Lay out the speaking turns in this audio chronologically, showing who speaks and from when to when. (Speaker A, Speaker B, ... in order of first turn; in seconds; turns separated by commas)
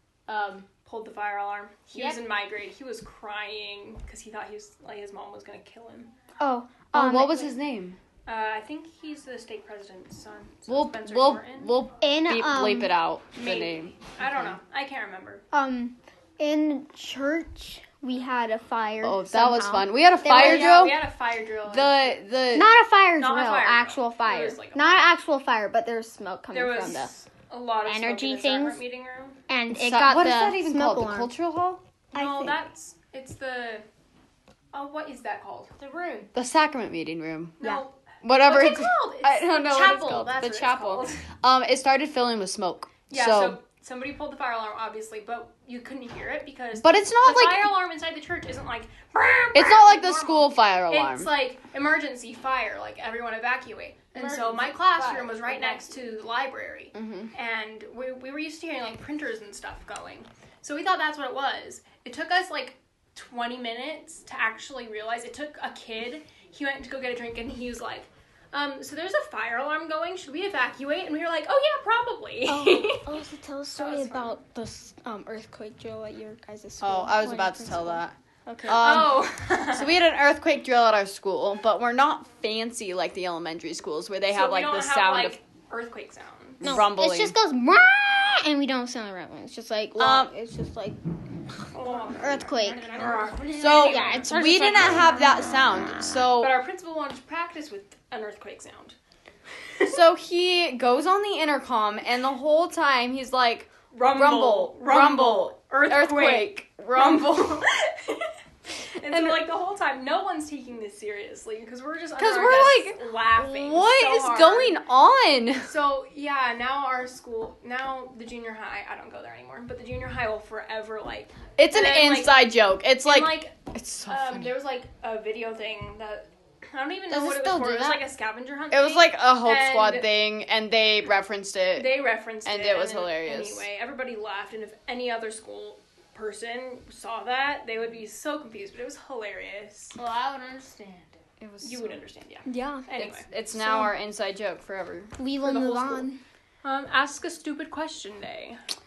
Speaker A: 0.3-0.7, Speaker B: 0.8-6.1, Speaker A: 1.9-2.2, Speaker C: 6.4-7.5, Speaker D: 6.9-8.0, Speaker B: 8.2-11.7, Speaker D: 10.7-14.6, Speaker C: 12.0-12.9, Speaker B: 13.4-15.4, Speaker C: 15.5-20.9, Speaker D: 19.0-21.0, Speaker B: 20.2-22.2, Speaker D: 21.7-22.7, Speaker C: 22.5-27.1, Speaker B: 23.2-24.8, Speaker B: 26.5-29.4, Speaker C: 27.9-28.8, Speaker C: 29.5-31.3, Speaker D: 29.7-31.8, Speaker B: 32.1-33.8, Speaker C: 32.1-32.6, Speaker B: 34.7-35.7, Speaker A: 35.8-36.3, Speaker D: 36.3-37.5, Speaker B: 37.6-41.2, Speaker D: 38.2-43.6, Speaker B: 43.1-73.2, Speaker D: 46.8-47.7, Speaker D: 49.5-51.3, Speaker A: 54.1-56.0, Speaker D: 56.9-57.3, Speaker C: 72.5-79.0, Speaker B: 73.8-74.3, Speaker D: 76.8-85.4, Speaker B: 78.7-80.0, Speaker B: 84.3-86.8, Speaker D: 86.6-87.3, Speaker C: 86.6-91.0, Speaker D: 90.0-90.3, Speaker B: 91.7-94.3, Speaker C: 91.8-93.0, Speaker A: 92.4-95.2, Speaker D: 93.5-96.5, Speaker C: 93.9-95.6, Speaker B: 96.3-99.0, Speaker B: 99.6-99.9, Speaker D: 99.8-107.6, Speaker B: 103.9-114.8, Speaker D: 109.1-109.4, Speaker D: 112.2-115.7, Speaker B: 115.6-122.3, Speaker D: 121.6-124.5, Speaker B: 123.0-123.5, Speaker B: 124.1-130.1, Speaker D: 127.1-128.0, Speaker D: 128.7-131.9, Speaker B: 131.7-140.0, Speaker D: 132.4-133.7, Speaker A: 139.9-141.2, Speaker D: 141.4-142.0, Speaker B: 141.6-143.3, Speaker C: 142.4-142.9, Speaker D: 142.9-145.6, Speaker C: 143.5-143.9, Speaker C: 145.2-146.2, Speaker B: 145.4-146.1, Speaker B: 146.6-148.6